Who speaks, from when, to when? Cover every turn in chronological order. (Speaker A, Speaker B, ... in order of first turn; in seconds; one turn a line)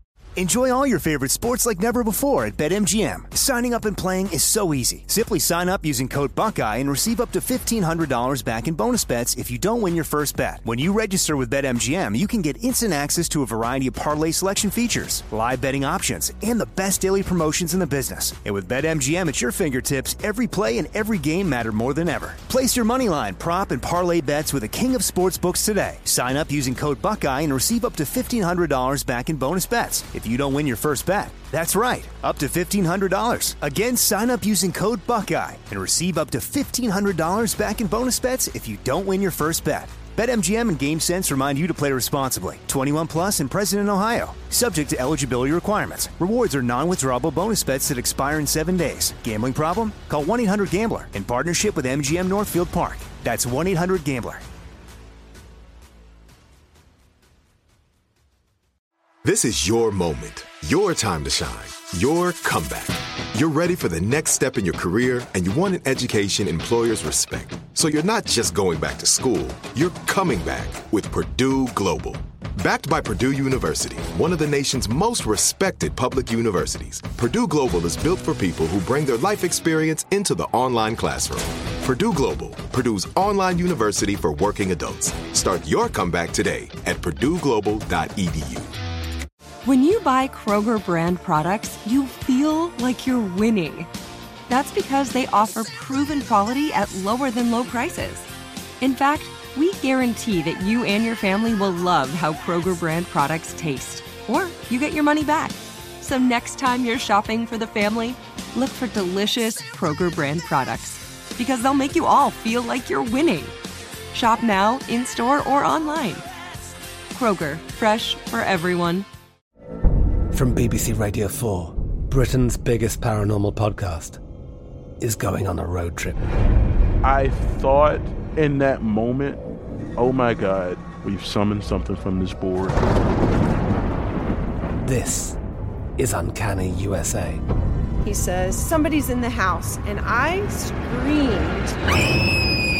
Speaker A: 0.3-54.4
Speaker B: 59.2-88.7
Speaker C: 89.6-93.9
Speaker C: 94.5-98.3
Speaker C: 98.8-113.5
Speaker C: 114.1-116.2
Speaker C: 117.1-119.0
Speaker D: 120.3-124.2
Speaker D: 125.0-126.3
Speaker E: 127.0-129.4
Speaker E: 130.0-132.8
Speaker D: 134.8-135.4
Speaker D: 136.0-137.4
Speaker F: 138.0-141.7